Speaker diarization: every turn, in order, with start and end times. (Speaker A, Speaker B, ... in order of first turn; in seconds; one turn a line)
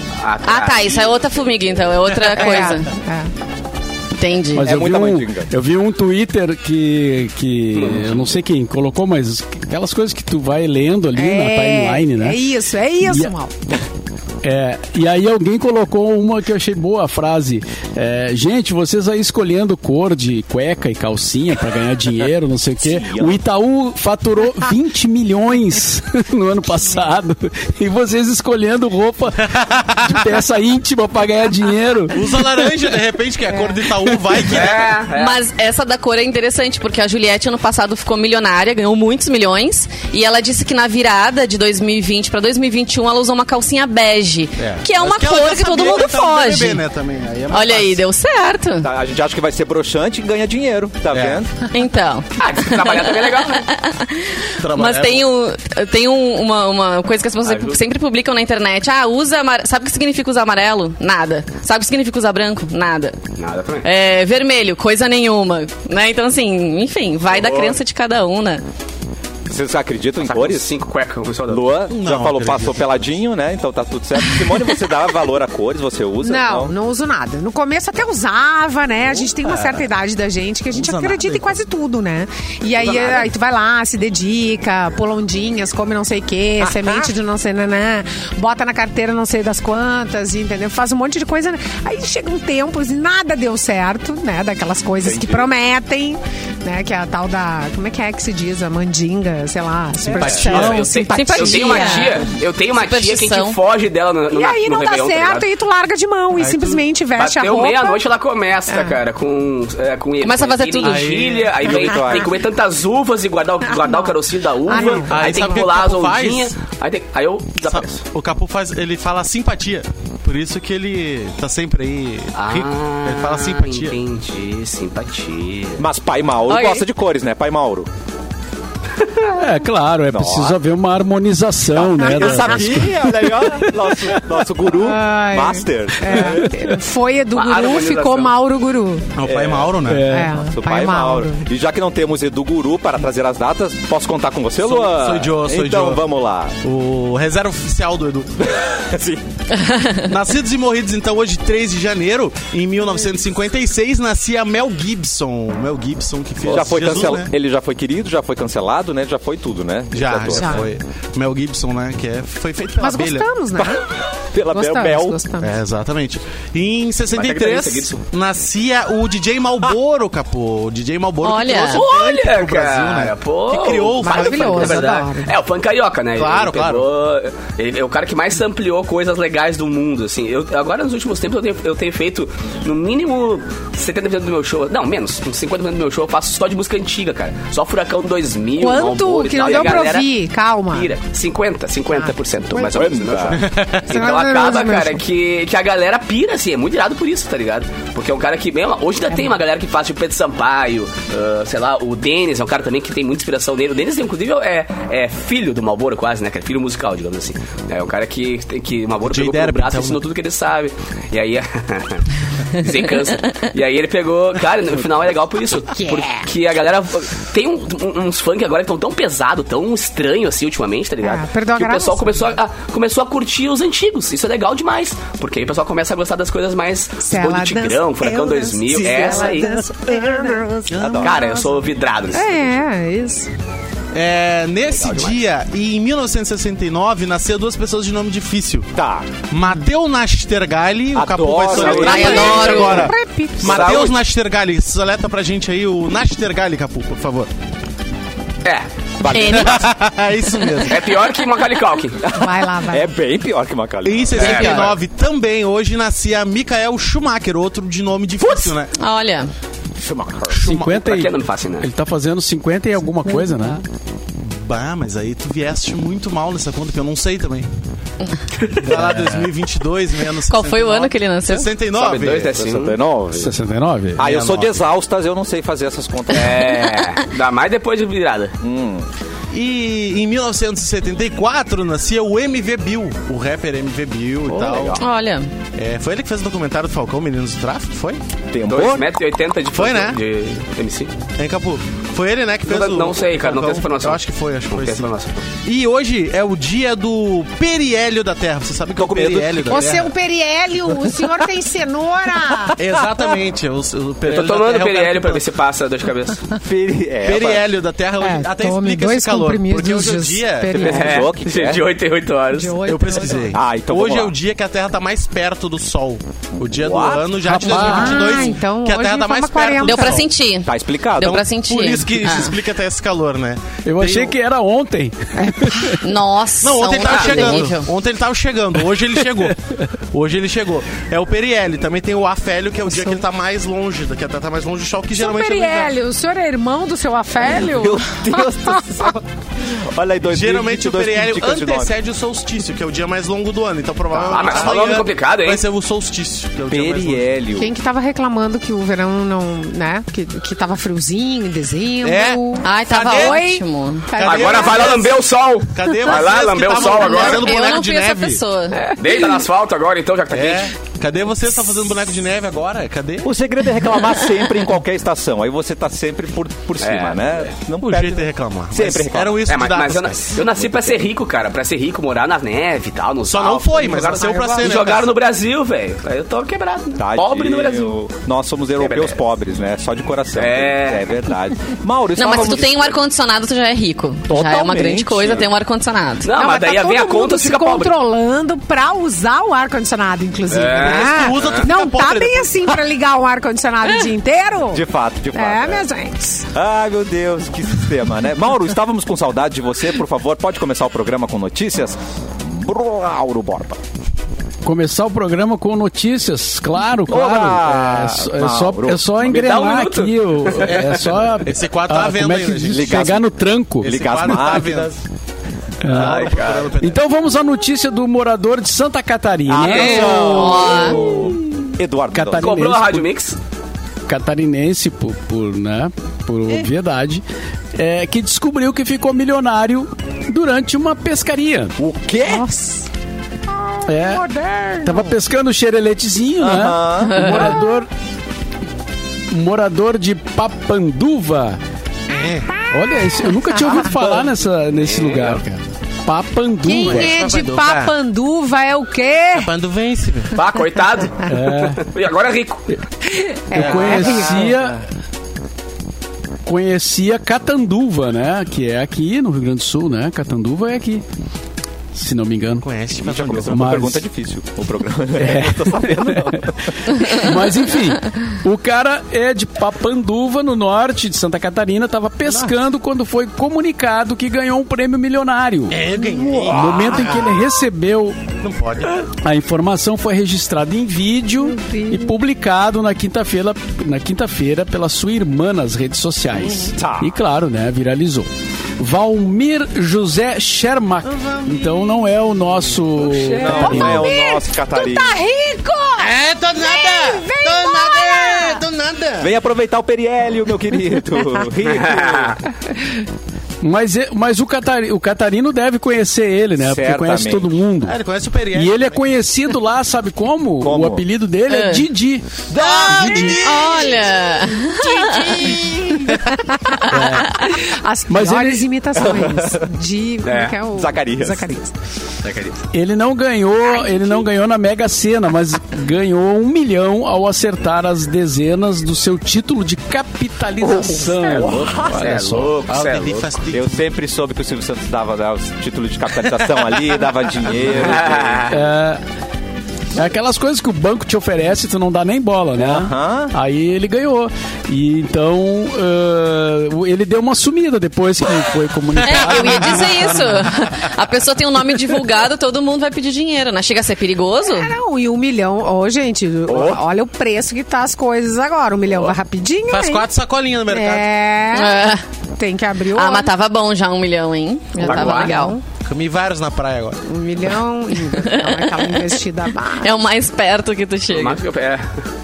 Speaker A: 0.2-2.2
Speaker B: 0.4-2.9
Speaker C: 2.3-3.3
Speaker B: 4.1-4.7
Speaker D: 4.5-12.4
Speaker E: 4.6-5.5
Speaker A: 7.8-8.2
Speaker C: 11.2-13.5
Speaker D: 13.0-13.3
Speaker D: 14.4-32.6
Speaker E: 22.8-23.4
Speaker F: 29.5-30.2
Speaker F: 32.1-35.0
Speaker A: 34.5-35.4
Speaker B: 35.1-46.8
Speaker F: 44.6-48.0
Speaker B: 47.5-48.9
Speaker E: 48.8-51.5
Speaker F: 51.1-51.4
Speaker B: 51.7-63.2
Speaker A: 52.4-53.7
Speaker F: 54.6-55.3
Speaker A: 57.4-57.8
Speaker A: 63.4-63.9
Speaker B: 63.8-68.6
Speaker A: 67.3-67.8
Speaker E: 69.5-70.7
Speaker A: 70.2-71.7
Speaker E: 71.5-76.7
Speaker F: 71.9-72.9
Speaker C: 76.2-102.2
Speaker F: 79.1-79.8
Speaker F: 80.7-81.6
Speaker A: 82.8-83.3
Speaker E: 86.6-87.1
Speaker E: 95.0-95.5
Speaker F: 100.1-100.9
Speaker A: 100.2-105.5
Speaker B: 101.1-103.6
Speaker C: 104.3-108.0
Speaker F: 106.3-106.8
Speaker A: 107.2-118.0
Speaker C: 108.7-109.0
Speaker B: 110.2-111.2
Speaker F: 110.8-111.6
Speaker E: 111.6-112.3
Speaker C: 113.8-114.1
Speaker C: 114.7-115.7
Speaker F: 114.7-116.5
Speaker F: 117.6-124.0
Speaker A: 122.3-125.9
Speaker E: 125.8-127.9
Speaker B: 126.5-126.8
Speaker D: 129.3-133.5
Speaker E: 130.1-130.6
Speaker E: 131.8-136.5
Speaker C: 132.1-132.7
Speaker C: 134.7-139.1
Speaker D: 136.4-136.7
Speaker A: 137.3-138.4
Speaker F: 139.2-140.1
Speaker E: 139.3-146.6
Speaker D: 139.8-140.3
Speaker C: 140.1-141.5
Speaker F: 144.6-146.0
Speaker F: 146.6-148.3
Speaker E: 148.4-149.4
Speaker B: 149.6-150.0
Speaker F: 150.1-157.3
Speaker E: 156.5-160.6
Speaker F: 159.9-163.4
Speaker C: 160.3-160.7
Speaker C: 162.8-163.9
Speaker E: 163.6-165.2
Speaker C: 164.5-165.6
Speaker F: 165.4-174.9
Speaker A: 167.1-168.0
Speaker B: 171.2-171.8
Speaker A: 171.7-190.1
Speaker C: 174.0-175.3
Speaker F: 176.2-176.9
Speaker C: 188.6-190.9
Speaker A: 190.7-229.6
Speaker C: 191.9-192.9
Speaker E: 192.7-193.4
Speaker F: 193.4-194.0
Speaker C: 193.9-195.0
Speaker F: 209.1-210.0
Speaker C: 215.7-216.3
Speaker C: 221.0-222.2
Speaker C: 227.0-231.6
Speaker F: 228.7-229.6
Speaker F: 230.7-231.1
Speaker E: 230.7-231.2
Speaker A: 231.0-232.5
Speaker C: 232.1-233.3
Speaker F: 233.9-238.7
Speaker A: 234.8-235.2
Speaker E: 238.8-239.1
Speaker F: 239.3-247.3
Speaker E: 240.9-242.6
Speaker A: 241.6-242.2
Speaker C: 241.6-243.7
Speaker B: 241.7-242.9
Speaker E: 243.4-243.9
Speaker A: 243.4-243.9
Speaker E: 249.0-249.7
Speaker B: 249.0-249.7
Speaker F: 249.3-250.9
Speaker A: 250.7-252.0
Speaker E: 252.0-254.7
Speaker C: 252.1-252.9
Speaker F: 253.8-258.7
Speaker A: 254.2-254.7
Speaker B: 254.2-254.7
Speaker B: 258.3-259.3
Speaker E: 259.8-260.4
Speaker F: 260.3-260.8
Speaker D: 260.4-263.6
Speaker A: 260.7-261.7
Speaker F: 264.2-267.5
Speaker F: 268.6-272.4
Speaker D: 268.6-269.2
Speaker B: 270.3-271.5
Speaker E: 271.8-273.3
Speaker A: 272.1-272.8
Speaker D: 273.1-274.0
Speaker E: 274.0-276.6
Speaker F: 274.0-274.5
Speaker A: 276.1-278.4
Speaker E: 278.4-278.9
Speaker F: 279.3-284.8
Speaker A: 284.3-284.8
Speaker B: 284.8-285.3
Speaker F: 285.6-288.0
Speaker E: 288.3-288.9
Speaker A: 288.5-290.9
Speaker F: 289.5-290.0
Speaker F: 291.2-299.9
Speaker A: 292.5-295.2
Speaker E: 298.8-299.7
Speaker C: 299.5-302.6
Speaker F: 302.6-305.2
Speaker A: 304.1-306.3
Speaker E: 306.4-307.5
Speaker F: 307.0-310.7
Speaker C: 308.0-311.1
Speaker A: 310.6-312.6
Speaker E: 310.6-311.7
Speaker C: 312.3-313.4
Speaker F: 312.6-320.1
Speaker E: 313.3-314.1
Speaker E: 316.4-317.2
Speaker D: 317.2-318.1
Speaker C: 317.5-320.1
Speaker B: 319.6-322.4
Speaker E: 320.4-321.2
Speaker F: 321.0-324.1
Speaker D: 323.6-325.8
Speaker C: 325.2-325.8
Speaker B: 325.8-327.7
Speaker F: 326.4-329.4
Speaker A: 326.9-327.2
Speaker F: 329.9-335.8
Speaker C: 332.7-333.0
Speaker C: 334.9-338.9
Speaker E: 337.2-341.7
Speaker F: 340.1-347.1
Speaker A: 344.1-345.4
Speaker E: 344.1-344.4
Speaker E: 346.5-347.5
Speaker C: 347.4-354.9
Speaker F: 351.8-353.4
Speaker B: 352.4-353.9
Speaker F: 353.9-355.0
Speaker A: 354.0-357.4
Speaker F: 355.5-358.2
Speaker B: 357.0-358.8
Speaker A: 358.6-360.5
Speaker C: 358.7-359.2
Speaker F: 360.1-363.1
Speaker E: 363.0-369.2
Speaker A: 366.6-367.3
Speaker F: 367.6-370.2
Speaker A: 369.3-377.8
Speaker E: 370.4-370.8
Speaker F: 373.1-374.9
Speaker E: 376.8-382.8
Speaker A: 378.6-379.0
Speaker A: 380.2-381.0
Speaker B: 381.9-386.1
Speaker E: 384.1-385.3
Speaker A: 386.0-387.8
Speaker C: 386.1-396.2
Speaker A: 390.3-391.5
Speaker F: 390.5-392.4
Speaker E: 394.5-395.6
Speaker E: 396.3-403.6
Speaker D: 404.4-413.8
Speaker E: 406.9-408.8
Speaker A: 409.0-410.8
Speaker F: 410.5-412.9
Speaker E: 412.5-413.1
Speaker E: 413.6-414.7
Speaker F: 413.6-414.8
Speaker D: 415.6-421.1
Speaker F: 415.6-416.8
Speaker A: 415.7-416.5
Speaker E: 419.3-422.4
Speaker A: 419.4-420.0
Speaker B: 420.0-420.8
Speaker D: 421.9-422.9
Speaker A: 422.2-423.2
Speaker D: 423.9-427.0
Speaker D: 427.6-431.6
Speaker E: 431.6-432.2
Speaker C: 432.1-432.7
Speaker D: 433.7-434.1
Speaker C: 433.7-434.9
Speaker D: 434.6-437.7
Speaker E: 436.2-437.2
Speaker B: 436.9-437.3
Speaker D: 439.1-441.4
Speaker F: 441.9-442.3
Speaker D: 442.5-446.9
Speaker A: 444.6-445.2
Speaker C: 446.4-449.3
Speaker F: 446.6-447.8
Speaker F: 449.1-450.1
Speaker A: 450.1-452.5
Speaker D: 451.1-451.6
Speaker C: 452.9-454.3
Speaker D: 453.3-454.6
Speaker F: 453.3-454.4
Speaker D: 456.2-460.8
Speaker D: 461.7-462.5
Speaker F: 462.4-463.6
Speaker E: 462.8-466.5
Speaker D: 463.2-463.8
Speaker D: 465.0-475.6
Speaker F: 472.1-472.4
Speaker F: 475.5-477.2
Speaker D: 476.3-478.0
Speaker F: 478.2-478.8
Speaker D: 479.0-488.1
Speaker C: 481.2-481.9
Speaker E: 486.5-486.9
Speaker D: 488.6-493.9
Speaker F: 490.9-491.9
Speaker C: 493.1-498.4
Speaker E: 493.2-495.0
Speaker F: 495.8-499.1
Speaker E: 499.0-502.2
Speaker A: 501.5-502.2
Speaker D: 503.4-507.8
Speaker E: 506.4-507.3
Speaker F: 507.6-508.9
Speaker D: 508.3-512.1
Speaker E: 510.4-510.9
Speaker B: 511.3-511.7
Speaker E: 512.3-513.4
Speaker F: 512.3-513.9
Speaker D: 512.6-513.2
Speaker B: 513.2-515.2
Speaker C: 514.6-521.5
Speaker D: 516.7-517.3
Speaker D: 517.9-518.5
Speaker E: 518.8-519.5
Speaker A: 520.0-520.4
Speaker E: 520.5-521.3
Speaker A: 522.0-522.4
Speaker D: 522.5-532.4
Speaker C: 523.5-524.0
Speaker E: 530.4-532.0
Speaker A: 531.6-533.1
Speaker F: 532.5-533.6
Speaker E: 533.3-538.3
Speaker A: 537.5-538.4
Speaker D: 538.3-538.8
Speaker D: 539.7-550.1
Speaker E: 542.4-543.1
Speaker F: 548.8-549.7
Speaker B: 548.8-554.5
Speaker C: 554.2-559.9
Speaker F: 559.5-561.0
Speaker C: 560.5-563.1
Speaker B: 561.3-561.8
Speaker B: 562.7-565.4
Speaker C: 564.6-565.4
Speaker A: 564.6-565.2
Speaker F: 565.6-566.8
Speaker C: 566.9-569.8
Speaker B: 567.9-568.9
Speaker B: 569.6-571.2
Speaker A: 570.9-571.7